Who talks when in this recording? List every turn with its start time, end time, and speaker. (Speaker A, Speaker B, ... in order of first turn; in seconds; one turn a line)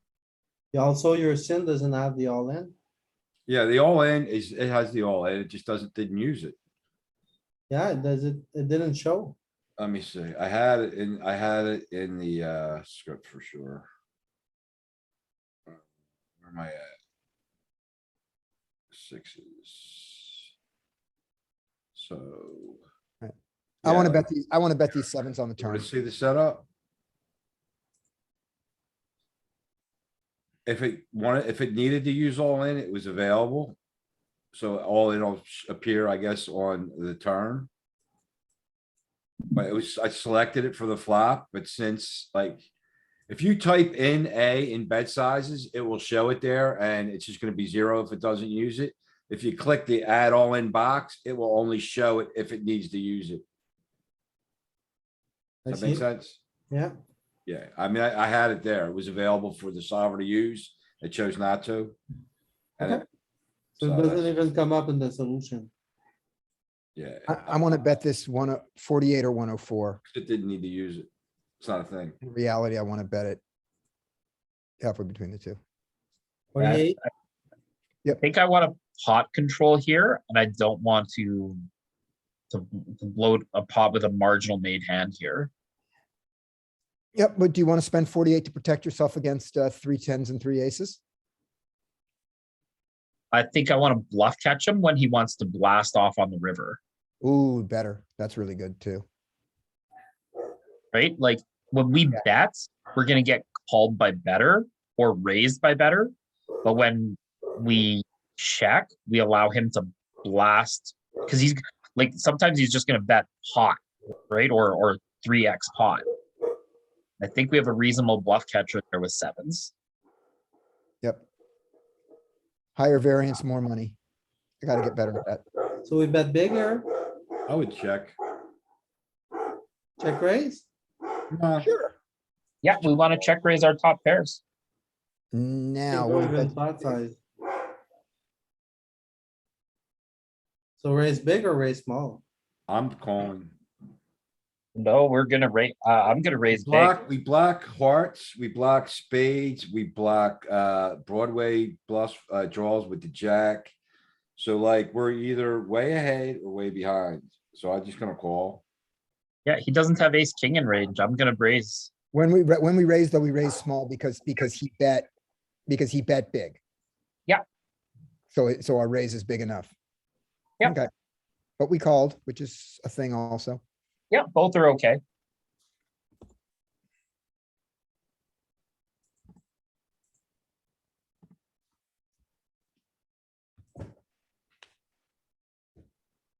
Speaker A: 0.7-2.7
Speaker B: 3.5-6.5
Speaker A: 7.7-9.3
Speaker B: 9.8-13.9
Speaker B: 16.4-16.9
Speaker B: 18.9-20.5
Speaker B: 21.9-22.8
Speaker C: 23.2-25.9
Speaker B: 23.8-24.2
Speaker B: 25.6-26.6
Speaker B: 30.6-33.8
Speaker B: 34.5-37.7
Speaker B: 39.5-42.6
Speaker B: 43.3-53.4
Speaker A: 55.6-56.0
Speaker B: 55.7-56.4
Speaker A: 56.7-56.9
Speaker B: 57.5-62.0
Speaker A: 63.8-65.7
Speaker B: 63.8-64.3
Speaker B: 67.0-67.4
Speaker C: 67.3-70.0
Speaker B: 70.0-71.1
Speaker B: 71.6-72.2
Speaker C: 72.2-73.4
Speaker C: 74.8-75.6
Speaker A: 76.5-77.0
Speaker D: 78.2-81.6
Speaker D: 82.5-85.5
Speaker C: 87.1-91.0
Speaker D: 93.3-96.8
Speaker C: 97.2-99.0
Speaker D: 100.9-116.0
Speaker D: 117.2-119.7
Speaker C: 122.7-124.0
Speaker C: 124.6-125.4
Speaker A: 125.8-126.8
Speaker B: 127.5-128.2
Speaker A: 130.0-130.7
Speaker B: 131.3-131.7
Speaker C: 131.6-131.9
Speaker D: 132.6-134.4
Speaker B: 132.8-133.2
Speaker C: 135.3-136.5
Speaker A: 135.9-137.2
Speaker A: 140.8-142.2
Speaker B: 142.7-143.5
Speaker D: 144.7-147.0
Speaker B: 146.5-153.7
Speaker B: 154.4-158.6
Speaker D: 159.4-161.9
Speaker C: 162.1-165.1
Speaker C: 165.7-166.6
Speaker C: 168.3-169.7
Speaker C: 170.6-170.9
Speaker C: 171.6-173.6
Speaker D: 174.1-175.0